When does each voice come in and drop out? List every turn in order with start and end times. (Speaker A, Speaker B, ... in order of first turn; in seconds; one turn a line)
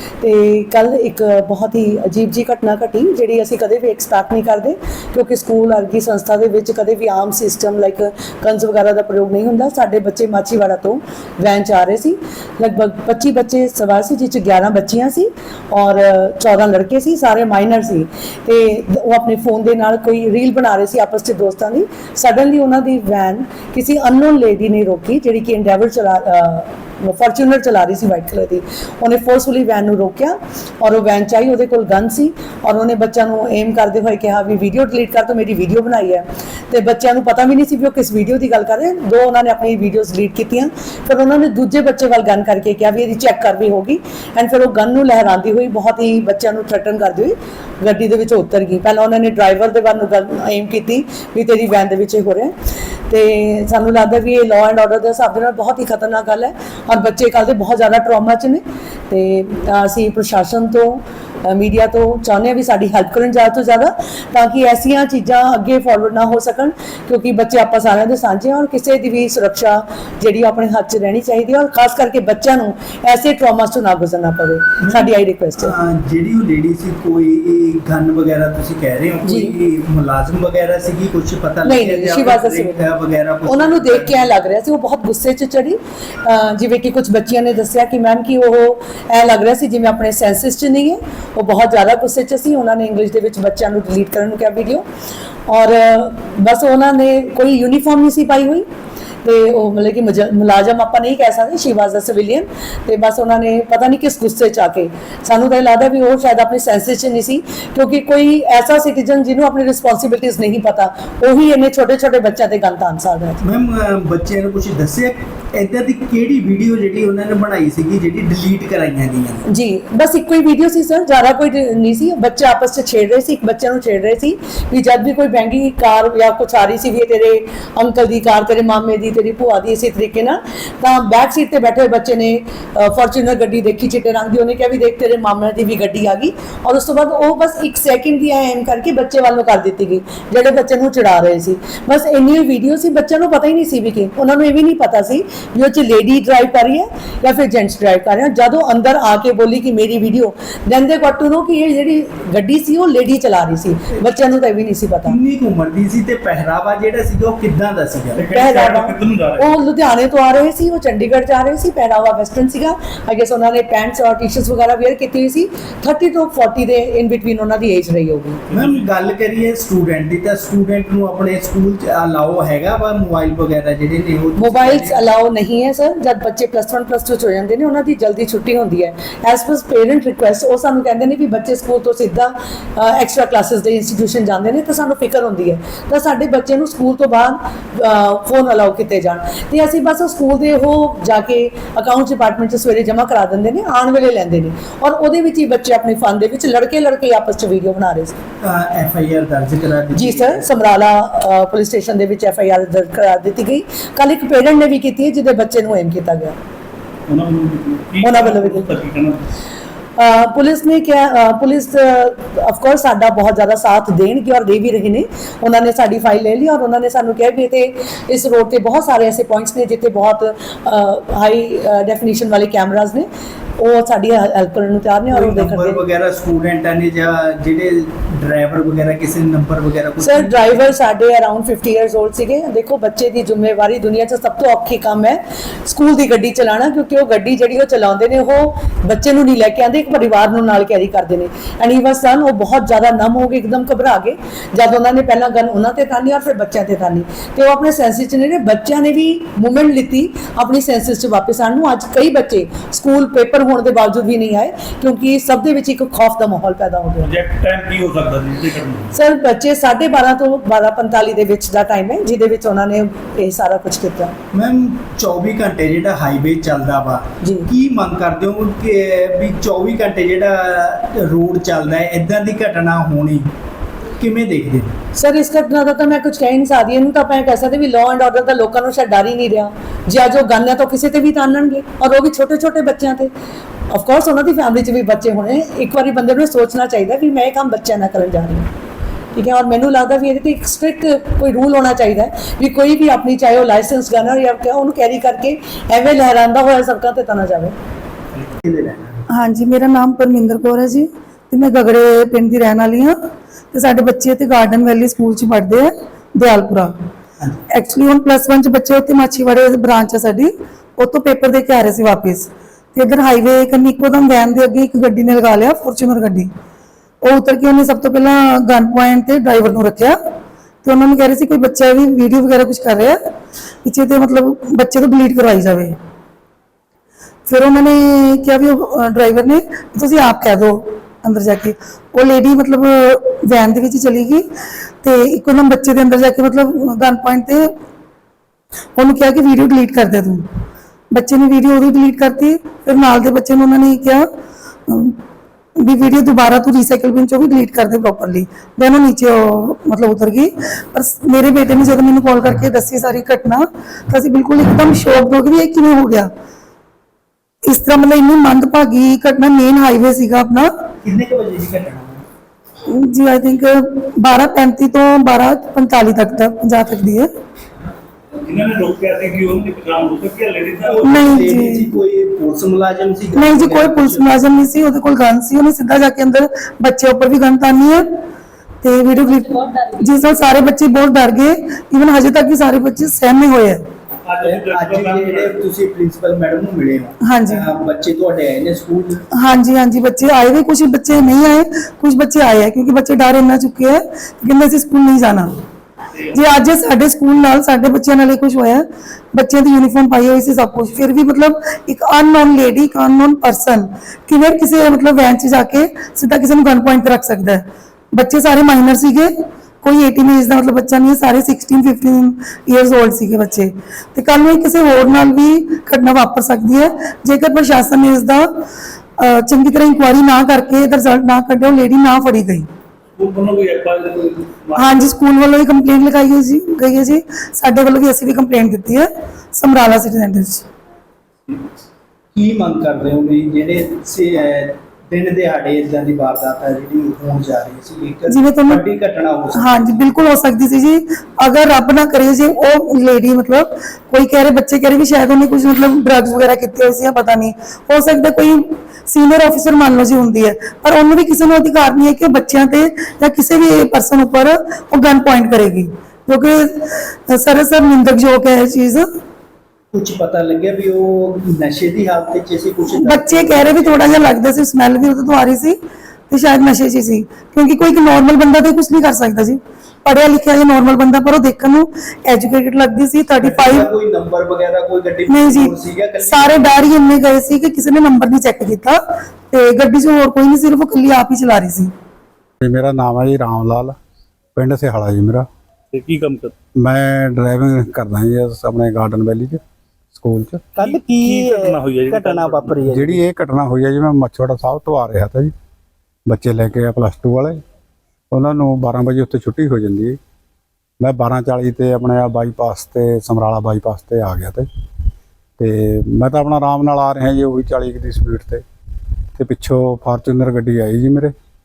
Speaker A: 0.2-52.5
Speaker A: 53.1-75.7
Speaker B: 74.8-84.3
Speaker A: 79.2-79.5
Speaker A: 81.6-82.8
Speaker A: 83.5-94.9
Speaker A: 95.5-98.7
Speaker A: 99.2-113.4
Speaker B: 113.4-119.4
Speaker A: 119.5-155.2
Speaker B: 155.1-158.3
Speaker C: 158.2-159.6
Speaker A: 158.3-168.4
Speaker C: 168.5-168.9
Speaker B: 168.5-175.0
Speaker A: 174.4-198.2
Speaker B: 198.4-200.5
Speaker A: 199.9-206.4
Speaker C: 207.1-209.2
Speaker A: 208.0-208.7
Speaker A: 210.0-223.1
Speaker A: 223.6-225.8
Speaker B: 225.1-230.7
Speaker A: 230.0-257.1
Speaker C: 257.0-258.9
Speaker A: 258.9-264.1
Speaker B: 264.3-273.3
Speaker A: 267.2-267.5
Speaker B: 274.0-274.8
Speaker A: 275.0-283.1
Speaker A: 283.7-288.5
Speaker A: 289.1-297.6
Speaker B: 298.1-299.0
Speaker D: 299.1-303.0
Speaker D: 303.5-306.7
Speaker D: 307.5-316.3
Speaker D: 317.0-320.0
Speaker D: 320.6-323.0
Speaker D: 323.6-325.8
Speaker D: 327.3-334.3
Speaker D: 334.8-337.5
Speaker D: 338.8-340.3
Speaker D: 340.9-344.1
Speaker D: 344.7-345.0
Speaker D: 345.6-356.1
Speaker D: 357.4-360.5
Speaker B: 360.8-362.0
Speaker D: 362.7-367.1
Speaker C: 368.2-371.1
Speaker B: 370.6-374.2
Speaker D: 370.8-371.7
Speaker D: 373.1-377.9
Speaker D: 378.6-383.6
Speaker C: 384.1-385.5
Speaker B: 384.2-389.0
Speaker D: 387.0-387.4
Speaker D: 389.1-395.4
Speaker D: 396.1-418.4
Speaker D: 419.0-422.5
Speaker C: 423.0-424.9
Speaker D: 424.6-430.5
Speaker B: 432.1-439.9
Speaker D: 438.1-438.6
Speaker D: 439.4-458.9
Speaker B: 459.7-464.0
Speaker D: 462.8-473.7
Speaker B: 473.2-476.7
Speaker D: 475.1-481.7
Speaker E: 482.4-483.8
Speaker E: 484.4-485.3
Speaker C: 485.7-486.3
Speaker E: 486.6-489.4
Speaker E: 489.9-490.4
Speaker B: 490.6-493.0
Speaker C: 490.6-492.6
Speaker E: 492.7-495.3
Speaker E: 496.1-497.4
Speaker E: 498.1-500.0
Speaker E: 500.8-504.5
Speaker E: 505.4-508.4
Speaker E: 509.2-511.1